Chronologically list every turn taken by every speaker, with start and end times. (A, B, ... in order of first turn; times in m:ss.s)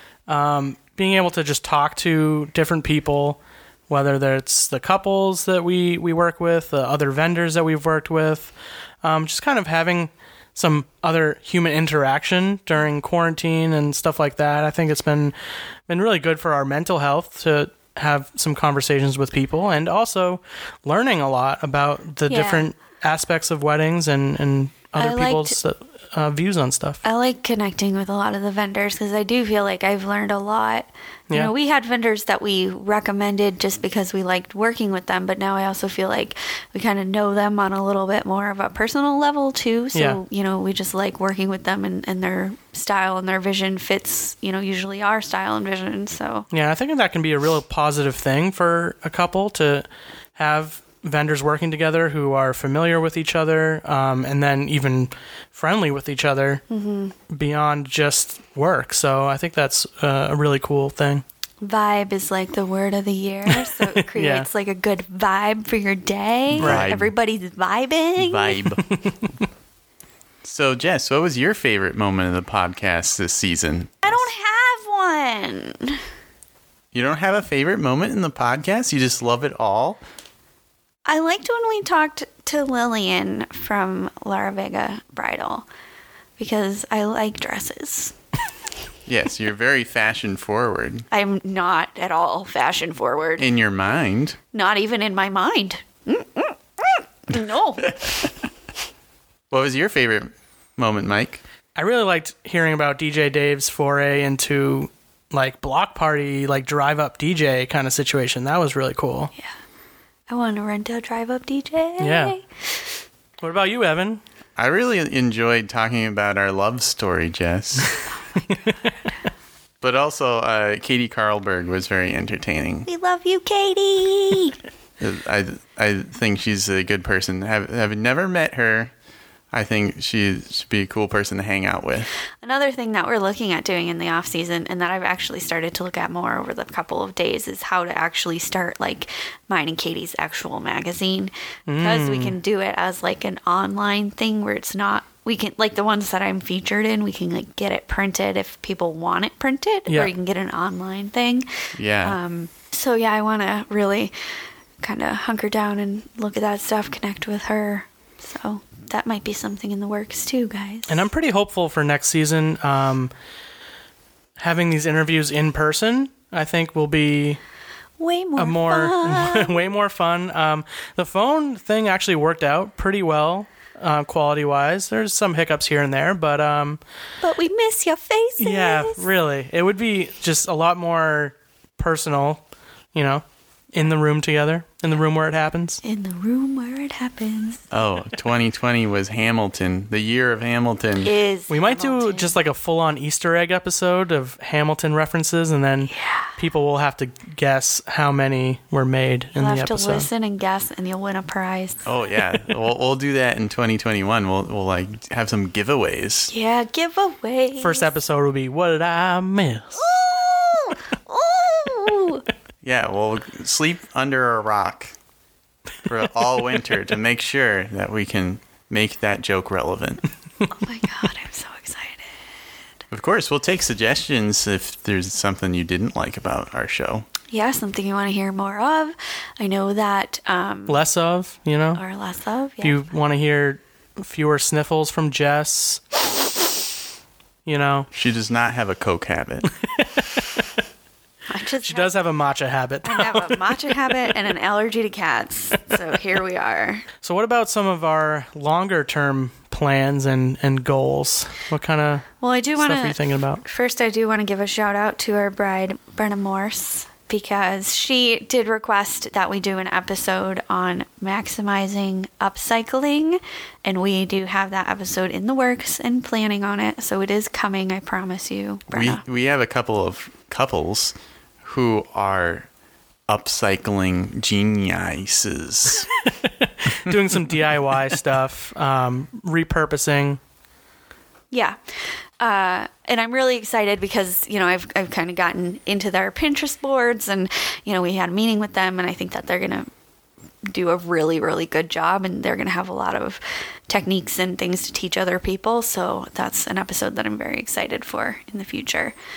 0:00.3-0:15.3 A
0:15.9-0:27.0 A
0:22.3-0:22.6 B
0:25.0-0:25.6 B
0:27.0-0:46.5 B
0:39.9-0:40.2 A
0:46.5-0:56.6 A
0:56.7-0:57.1 B
0:57.3-1:01.2 A
1:01.6-1:08.6 B
1:03.5-1:04.5 A
1:06.5-1:07.1 C
1:06.6-1:06.9 A
1:08.2-1:08.8 C
1:09.0-1:09.3 A
1:10.4-1:14.1 C
1:14.0-1:16.0 B
1:16.9-1:20.0 C
1:21.0-1:25.7 B
1:26.4-1:28.2 B
1:29.1-1:31.0 C
1:31.1-1:33.5 B
1:33.4-1:34.4 C
1:34.5-1:38.1 B
1:39.5-1:41.4 C
1:41.7-1:49.3 A
1:50.3-1:52.4 B
1:52.0-1:52.4 A
1:53.4-1:54.2 A
1:54.6-1:57.9 C
1:58.2-1:59.1 B
1:59.8-2:02.9 C
2:02.8-2:04.6 B
2:05.0-2:08.9 C
2:09.5-2:12.1 C
2:12.4-2:31.5 B
2:21.7-2:22.4 A
2:29.9-2:30.1 A
2:31.8-2:32.2 C
2:32.0-2:34.1 B
2:34.8-2:41.1 B
2:40.9-2:43.1 A
2:44.4-2:47.4 A
2:48.0-2:49.7 B
2:48.4-2:56.8 A
2:57.2-2:59.0 B
2:58.4-3:02.4 A
3:02.9-3:05.8 A
3:05.8-3:07.6 B
3:07.7-3:11.1 C
3:11.0-3:12.4 B
3:11.5-3:20.1 A
3:15.9-3:16.3 B
3:19.3-3:21.9 B
3:21.8-3:26.3 C
3:26.3-3:27.9 B
3:27.6-3:29.9 A
3:29.8-3:32.2 B
3:32.6-3:34.9 C
3:35.8-3:40.0 C
3:40.5-3:42.1 B
3:42.9-3:47.1 C
3:47.3-3:50.8 B
3:50.7-3:51.8 A
3:51.7-3:52.8 B
3:52.6-3:55.8 A
3:57.4-3:57.9 A
3:57.9-3:59.5 C
3:59.8-4:00.2 A
4:01.3-4:01.9 B
4:01.6-4:04.1 A
4:02.8-4:06.9 B
4:07.0-4:13.4 A
4:12.2-4:29.0 B
4:28.7-4:32.5 C
4:33.1-4:35.9 C
4:36.0-4:40.2 A
4:41.3-4:41.6 B
4:42.2-4:49.7 B
4:50.5-4:58.9 B